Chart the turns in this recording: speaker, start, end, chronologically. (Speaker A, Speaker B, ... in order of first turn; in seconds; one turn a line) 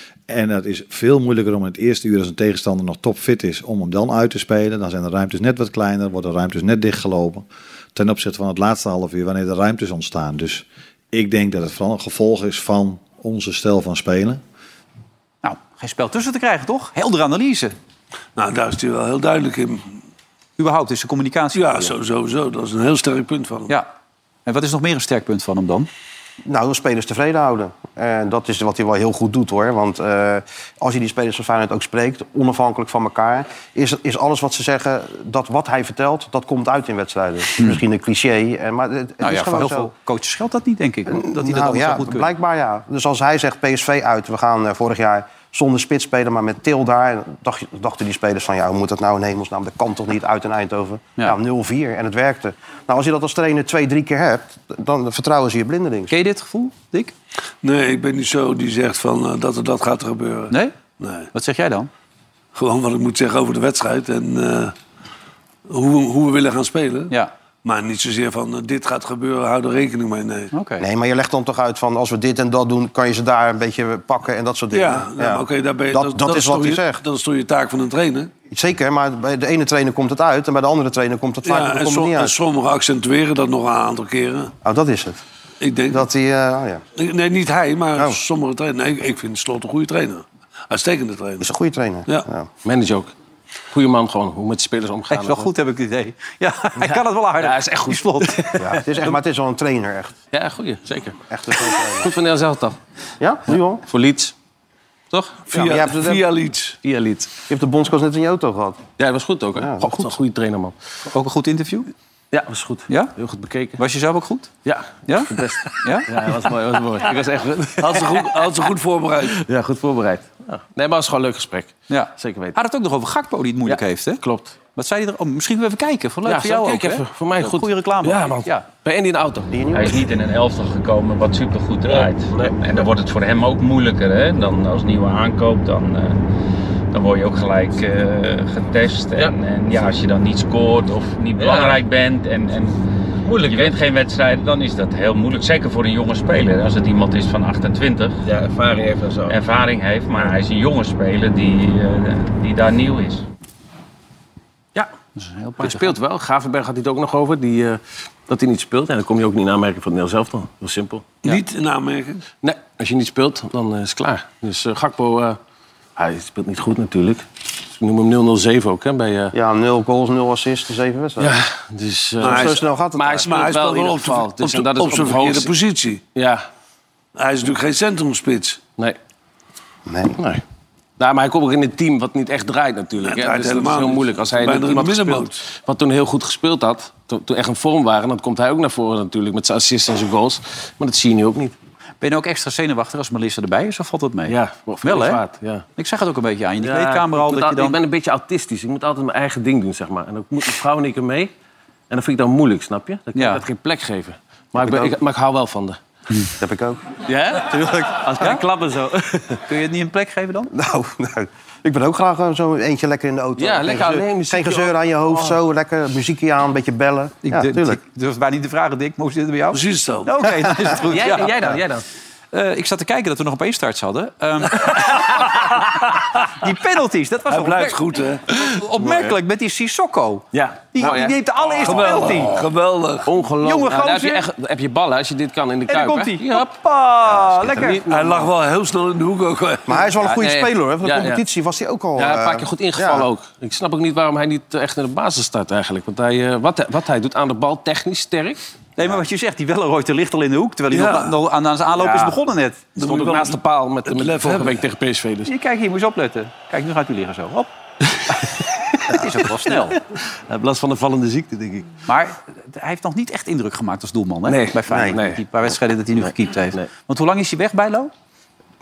Speaker A: 0.3-14.4
Speaker B: 15.4-17.8
Speaker C: 18.4-20.0
Speaker B: 20.6-21.8
Speaker C: 21.5-23.7
Speaker B: 24.5-25.9
Speaker D: 26.5-39.9
Speaker B: 39.2-42.3
Speaker D: 41.1-56.1
Speaker B: 56.1-57.1
Speaker C: 57.6-61.3
Speaker B: 61.3-61.9
Speaker C: 62.5-64.7
Speaker C: 65.7-67.1
Speaker C: 67.7-70.5
Speaker B: 70.5-70.8
Speaker D: 70.8-77.0
Speaker C: 74.7-78.3
Speaker D: 78.5-82.3
Speaker C: 81.5-84.5
Speaker D: 84.6-85.2
Speaker C: 85.6-86.1
Speaker D: 85.9-86.8
Speaker C: 87.0-91.5
Speaker D: 91.4-92.5
Speaker E: 92.6-93.1
Speaker E: 93.7-95.5
Speaker B: 95.1-98.6
Speaker E: 97.4-98.8
Speaker D: 98.6-100.2
Speaker E: 100.3-101.2
Speaker D: 101.3-102.1
Speaker E: 101.7-102.8
Speaker D: 103.2-103.8
Speaker E: 103.9-104.3
Speaker E: 105.1-105.7
Speaker C: 105.5-106.8
Speaker D: 105.5-106.2
Speaker E: 106.8-107.4
Speaker D: 107.5-108.9
Speaker E: 109.0-110.8
Speaker D: 109.6-110.1
Speaker B: 111.1-111.9
Speaker E: 112.3-113.8
Speaker B: 112.9-113.2
Speaker B: 113.8-114.5
Speaker E: 114.7-118.5
Speaker B: 115.1-116.3
Speaker C: 117.8-119.4
Speaker E: 119.2-122.6
Speaker B: 121.9-124.2
Speaker E: 123.7-124.6
Speaker B: 124.8-128.7
Speaker E: 126.2-129.5
Speaker D: 129.5-130.0
Speaker F: 129.7-136.2
Speaker E: 131.9-132.8
Speaker F: 136.9-148.2
Speaker E: 141.4-141.8
Speaker E: 143.3-143.7
Speaker E: 148.2-149.4
Speaker F: 149.3-153.3
Speaker B: 155.2-156.0
Speaker E: 155.6-161.1
Speaker C: 161.2-162.2
Speaker E: 162.4-165.4
Speaker E: 166.0-169.3
Speaker D: 169.3-171.3
Speaker E: 171.2-175.5
Speaker C: 172.2-172.6
Speaker D: 172.2-173.4
Speaker C: 173.2-176.0
Speaker E: 176.2-176.5
Speaker C: 177.2-178.6
Speaker D: 179.9-180.2
Speaker E: 180.2-180.4
Speaker E: 181.0-191.6
Speaker C: 183.0-185.4
Speaker B: 192.0-195.2
Speaker E: 194.3-195.7
Speaker B: 195.8-197.8
Speaker E: 196.6-201.3
Speaker E: 201.9-205.8
Speaker B: 203.2-203.4
Speaker D: 204.6-204.9
Speaker D: 206.4-206.9
Speaker E: 207.1-209.4
Speaker B: 209.5-210.5
Speaker D: 210.5-217.8
Speaker E: 213.4-215.4
Speaker B: 217.2-221.5
Speaker C: 219.5-220.1
Speaker E: 220.9-221.8
Speaker B: 222.3-225.5
Speaker B: 226.3-227.8
Speaker C: 227.3-228.2
Speaker B: 228.3-232.4
Speaker E: 228.8-229.1
Speaker E: 230.3-232.2
Speaker C: 231.6-233.1
Speaker E: 233.1-236.5
Speaker B: 233.4-234.2
Speaker B: 235.7-237.8
Speaker E: 237.1-238.3
Speaker C: 237.9-239.9
Speaker D: 239.7-243.1
Speaker E: 240.0-241.2
Speaker E: 242.0-248.4
Speaker B: 248.8-252.6
Speaker C: 250.7-251.1
Speaker E: 251.8-252.2
Speaker C: 252.8-254.6
Speaker E: 252.8-255.3
Speaker B: 255.3-257.5
Speaker B: 258.8-259.8
Speaker E: 259.7-261.7
Speaker B: 261.9-267.9
Speaker E: 264.3-265.2
Speaker D: 264.7-265.0
Speaker E: 266.0-266.7